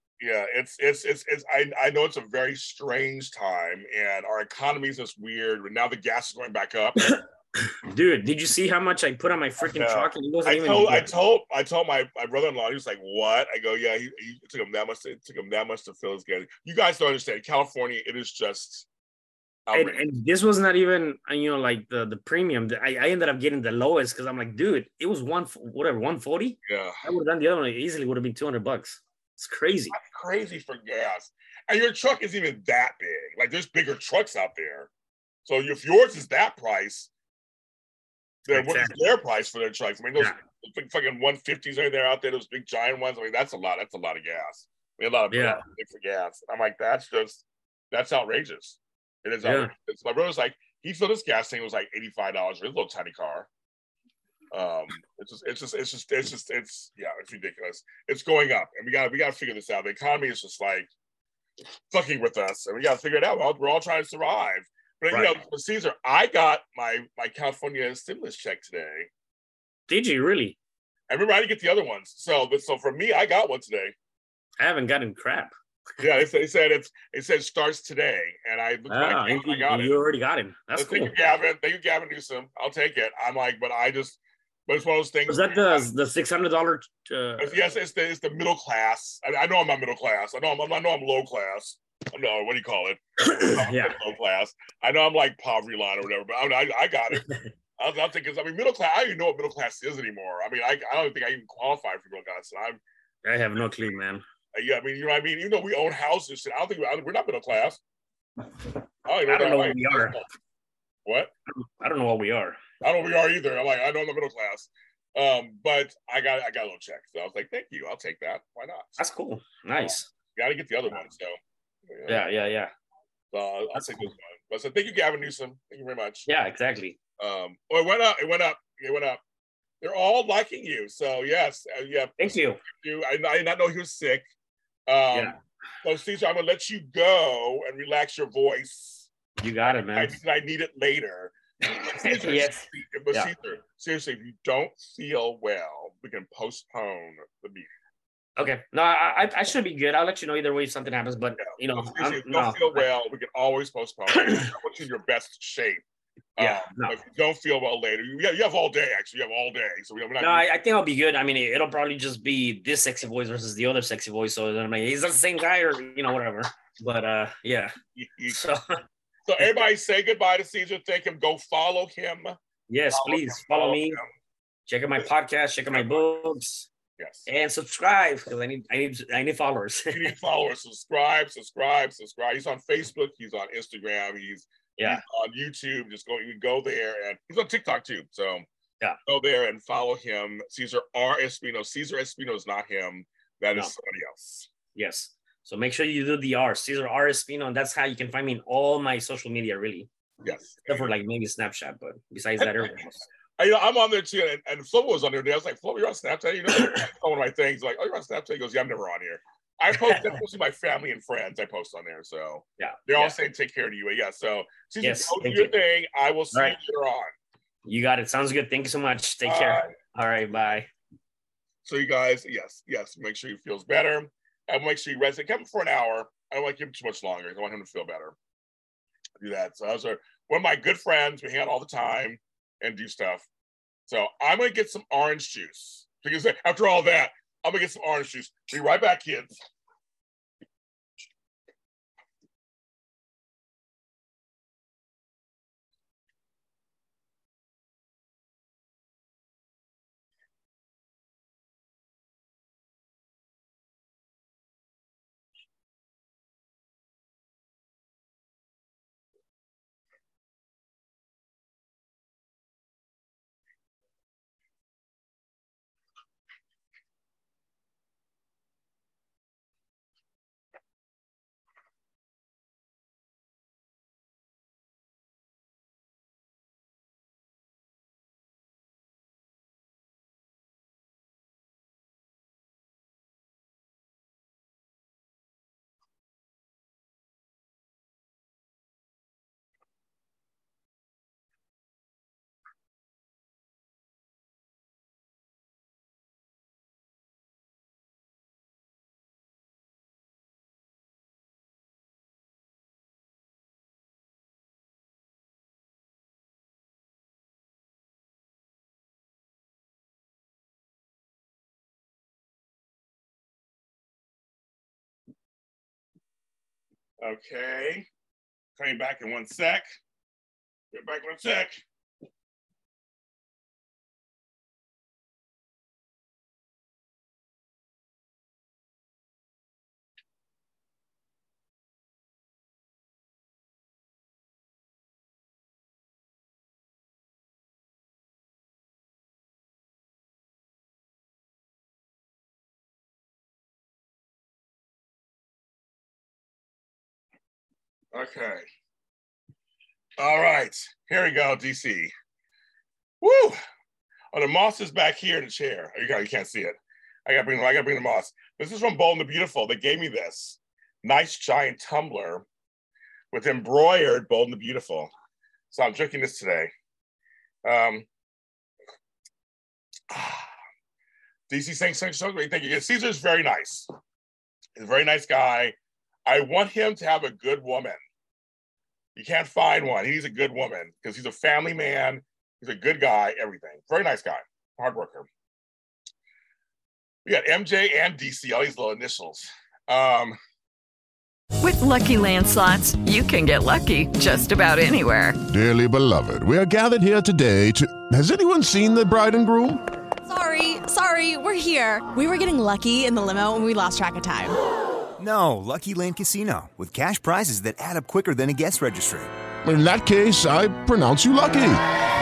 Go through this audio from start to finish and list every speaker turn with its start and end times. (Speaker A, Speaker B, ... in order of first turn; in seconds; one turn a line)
Speaker A: 0.2-7.1
Speaker B: 7.0-11.1
Speaker A: 9.6-18.9
Speaker A: 19.7-20.0
Speaker B: 19.7-29.9
Speaker A: 26.7-27.0
Speaker A: 29.9-34.9
Speaker A: 35.5-37.1
Speaker A: 38.5-53.5
Speaker B: 38.5-39.0
Speaker B: 45.3-45.6
Speaker B: 49.4-49.7
Speaker A: 54.5-60.9
Speaker A: 61.9-69.1
Speaker B: 65.1-65.4
Speaker B: 69.9-70.6
Speaker A: 71.1-73.9
Speaker B: 74.6-75.5
Speaker A: 76.0-80.0
Speaker B: 78.9-81.2
Speaker A: 80.8-85.9
Speaker B: 85.3-87.6
Speaker A: 87.4-102.8
Speaker B: 93.2-94.0
Speaker B: 97.2-97.5
Speaker B: 103.2-104.2
Speaker A: 104.5-107.8
Speaker A: 109.0-110.2
Speaker B: 109.2-110.2
Speaker A: 111.0-111.3
Speaker B: 111.6-112.6
Speaker A: 112.8-119.0
Speaker B: 119.0-120.1
Speaker A: 119.8-122.3
Speaker B: 122.1-122.7
Speaker A: 123.3-126.3
Speaker B: 123.8-124.0
Speaker B: 126.3-127.0
Speaker A: 127.2-129.2
Speaker A: 129.8-134.3
Speaker B: 132.2-132.6
Speaker A: 134.9-139.1
Speaker B: 135.1-135.4
Speaker B: 139.4-140.2
Speaker A: 139.8-147.7
Speaker B: 141.7-143.3
Speaker B: 148.4-152.9
Speaker A: 151.4-155.8
Speaker B: 154.1-154.5
Speaker A: 156.4-160.5
Speaker B: 156.4-157.0
Speaker B: 160.2-167.8
Speaker A: 167.9-168.4
Speaker B: 168.3-168.8
Speaker A: 169.3-172.4
Speaker B: 172.7-174.0
Speaker A: 172.9-174.1
Speaker B: 174.7-176.7
Speaker A: 175.7-176.2
Speaker A: 177.0-177.3
Speaker B: 177.3-180.2
Speaker A: 179.9-188.5
Speaker A: 189.1-194.5
Speaker B: 194.7-199.9
Speaker A: 200.2-200.9
Speaker B: 200.7-203.1
Speaker A: 202.4-202.8
Speaker A: 203.4-217.1
Speaker B: 206.5-206.9
Speaker B: 209.7-210.2
Speaker B: 212.6-213.2
Speaker B: 214.8-215.6
Speaker B: 217.7-220.7
Speaker A: 219.2-219.7
Speaker A: 221.7-228.2
Speaker A: 229.2-233.3
Speaker A: 233.9-239.4
Speaker A: 317.0-317.9
Speaker A: 318.6-319.7
Speaker A: 320.7-321.6
Speaker A: 347.9-348.4
Speaker A: 350.0-351.9
Speaker A: 353.0-353.4
Speaker A: 354.1-362.3
Speaker A: 363.1-364.9
Speaker A: 365.5-366.5
Speaker A: 367.4-367.9
Speaker A: 369.9-370.4
Speaker A: 371.3-373.7
Speaker A: 374.6-377.8
Speaker A: 379.0-385.1
Speaker A: 387.1-390.2
Speaker C: 391.4-395.2
Speaker D: 395.3-399.6
Speaker E: 400.1-404.4
Speaker F: 405.0-409.1
Speaker D: 409.4-411.6